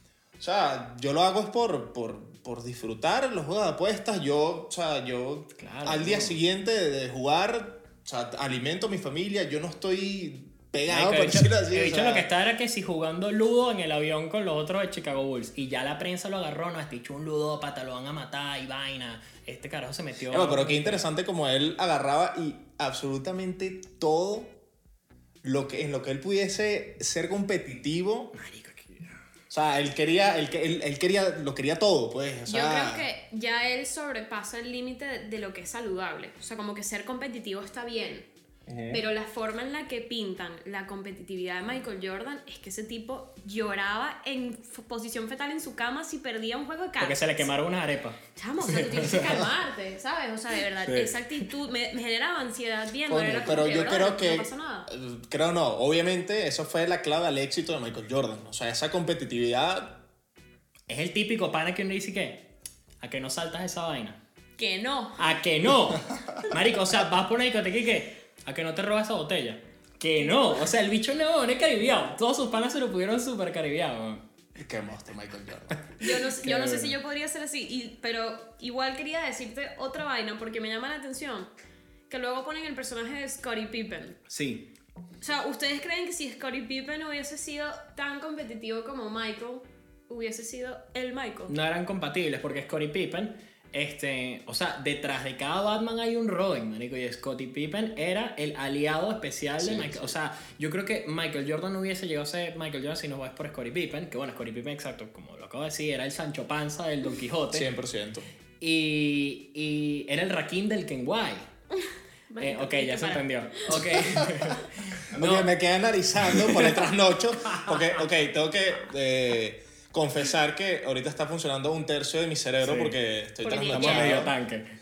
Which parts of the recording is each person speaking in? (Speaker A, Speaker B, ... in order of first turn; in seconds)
Speaker A: 0.4-12.3, 20.3-24.6, 25.4-28.3, 29.5-33.1, 38.7-39.0, 53.1-60.0, 74.5-76.0, 99.6-100.1, 107.5-108.3, 113.9-114.6, 115.1-124.3
Speaker B: 5.6-6.4, 10.9-21.1, 28.3-29.1, 47.0-49.4, 50.8-51.5, 60.9-62.5, 63.0-64.2, 65.2-74.2, 76.4-76.9, 84.3-84.7, 91.5-107.7, 108.6-111.5, 112.4-115.5, 116.3-116.7, 122.6-123.0, 123.7-124.7
Speaker C: 32.5-38.3, 38.9-47.5, 48.3-54.9, 64.6-65.2, 76.0-81.5, 82.1-84.2, 85.2-91.5, 112.3-114.0, 123.4-124.3